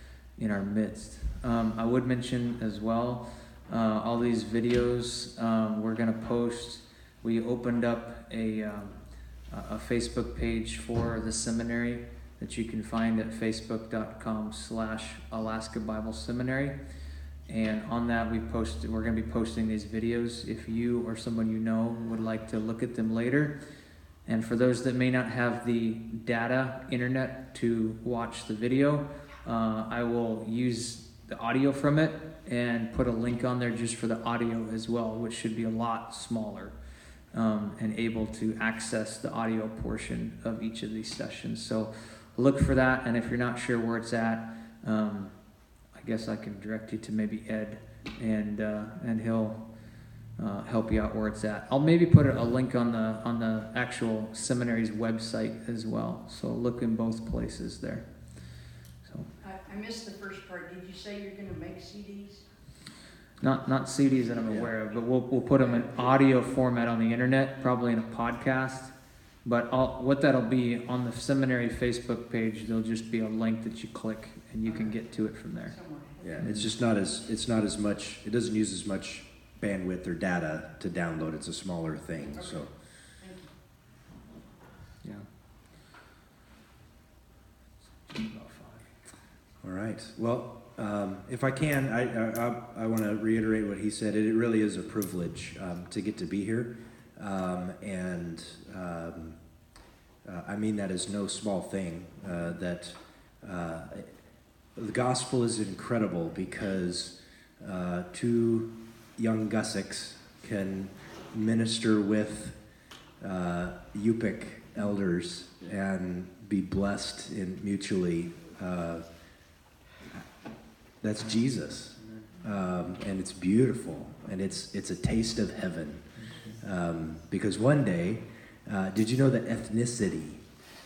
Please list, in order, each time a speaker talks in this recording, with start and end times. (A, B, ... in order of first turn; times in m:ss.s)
0:00.4-0:16.8 A
0:17.5-0:23.6 A
0:24.3-0:36.8 A
0:37.3-0:49.8 A
0:50.4-0:59.3 A
0:59.4-1:02.5 B
1:03.4-1:15.8 A
1:05.6-1:06.0 B
1:14.6-1:15.0 B
1:15.6-1:16.4 B
1:16.2-1:22.8 C
1:16.4-1:16.7 A
1:22.3-1:23.5 B
1:25.0-1:25.3 A
1:27.9-1:29.0 A
1:29.6-1:39.4 C
1:40.2-1:44.2 C
1:44.8-1:52.6 C
1:53.2-1:59.0 C
2:01.0-2:10.4 C
2:02.0-2:02.4 A
2:06.2-2:06.6 A